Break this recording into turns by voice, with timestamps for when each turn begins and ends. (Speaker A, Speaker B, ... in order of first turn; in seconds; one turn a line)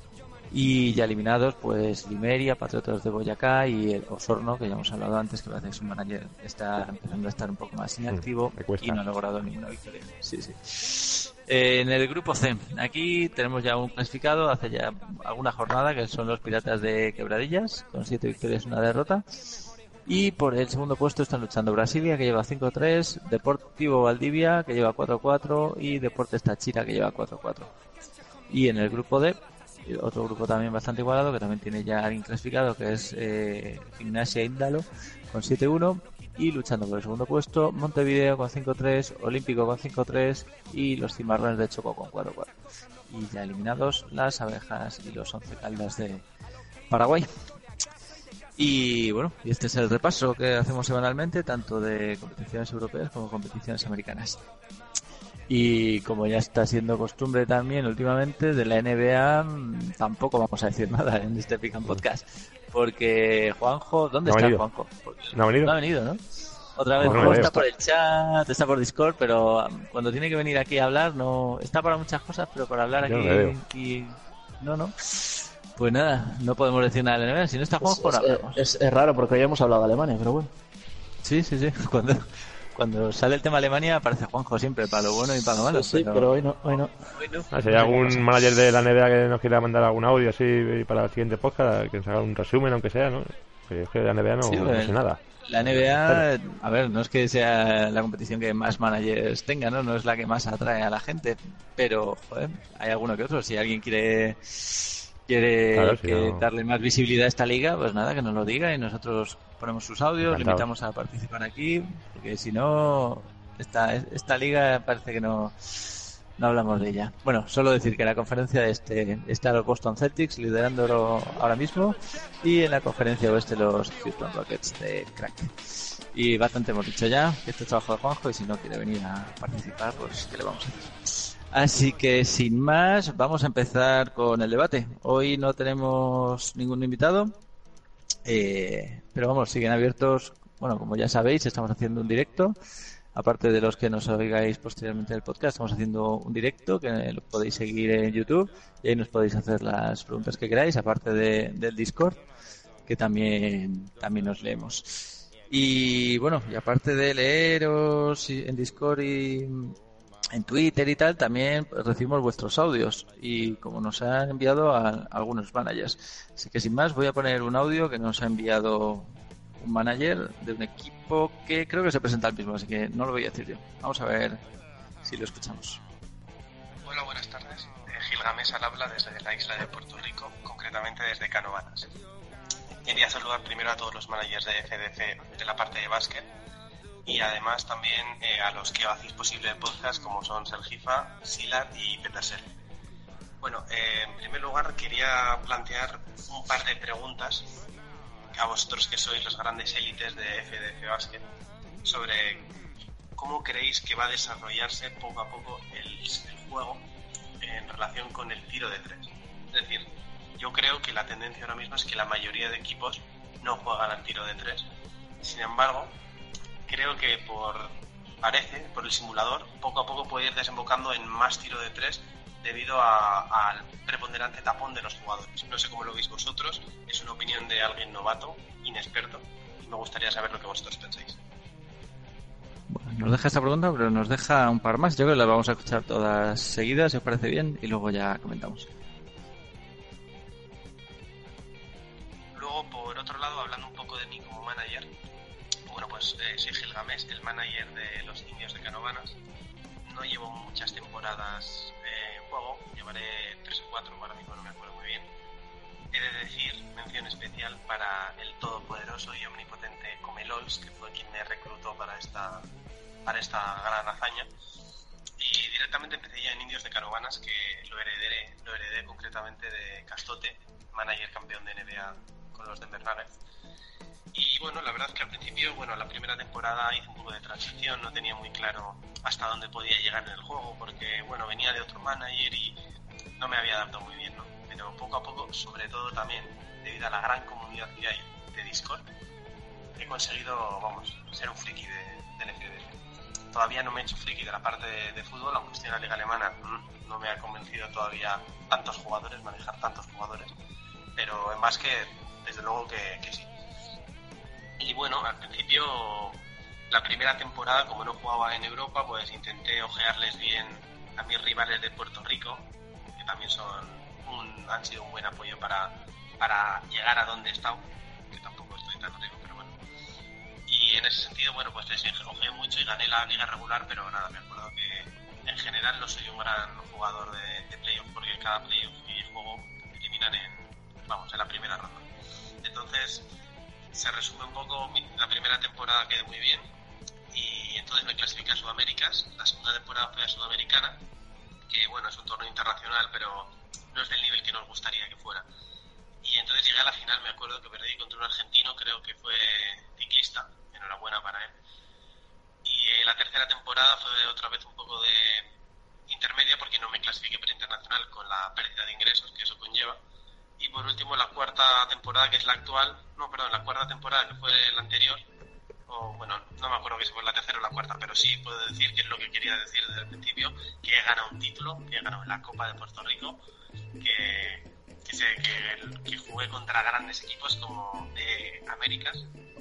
Speaker A: 0.5-19.2
Speaker B: 8.1-9.0
Speaker A: 20.1-27.7
Speaker A: 28.5-42.5
Speaker A: 43.1-46.2
Speaker A: 46.9-47.3
Speaker A: 48.6-54.4
Speaker A: 55.5-66.2
Speaker B: 64.2-64.6
Speaker B: 65.3-65.8
Speaker A: 66.7-78.6
Speaker B: 67.0-67.5
Speaker C: 67.0-67.7
Speaker B: 73.0-73.6
Speaker C: 77.8-80.5
Speaker A: 81.2-86.3
Speaker C: 85.7-87.4
Speaker A: 87.2-88.2
Speaker B: 87.5-96.2
Speaker A: 94.4-125.5
Speaker B: 105.7-106.5
Speaker B: 110.2-110.6
Speaker A: 126.1-137.3
Speaker A: 138.2-142.5
Speaker A: 143.1-152.2
Speaker A: 152.9-159.7
Speaker A: 160.3-169.1
Speaker A: 169.6-174.4
Speaker A: 175.0-175.8
Speaker D: 176.8-181.9
Speaker D: 182.8-186.2
Speaker D: 187.1-192.5
Speaker D: 193.4-197.5
Speaker D: 198.3-201.2
Speaker D: 201.8-202.5
Speaker D: 203.2-206.8
Speaker D: 207.4-214.7
Speaker D: 215.2-215.9
Speaker D: 216.7-231.2
Speaker A: 232.7-238.7
Speaker D: 242.3-244.9
Speaker D: 245.7-249.2
Speaker D: 249.8-255.1
Speaker D: 255.9-262.4
Speaker D: 263.1-264.3
Speaker D: 265.2-273.1
Speaker D: 274.1-282.6
Speaker D: 283.2-288.8
Speaker D: 289.8-292.7
Speaker D: 293.3-300.3
Speaker D: 301.0-303.3
Speaker D: 304.6-306.2
Speaker D: 306.7-319.5
Speaker D: 320.5-331.9
Speaker D: 332.4-333.1
Speaker D: 333.7-336.5
Speaker D: 337.1-340.8
Speaker D: 341.5-345.2
Speaker D: 346.0-351.3
Speaker D: 352.4-355.3
Speaker D: 355.9-359.8
Speaker D: 360.4-365.0
Speaker D: 365.7-373.2
Speaker D: 373.8-379.0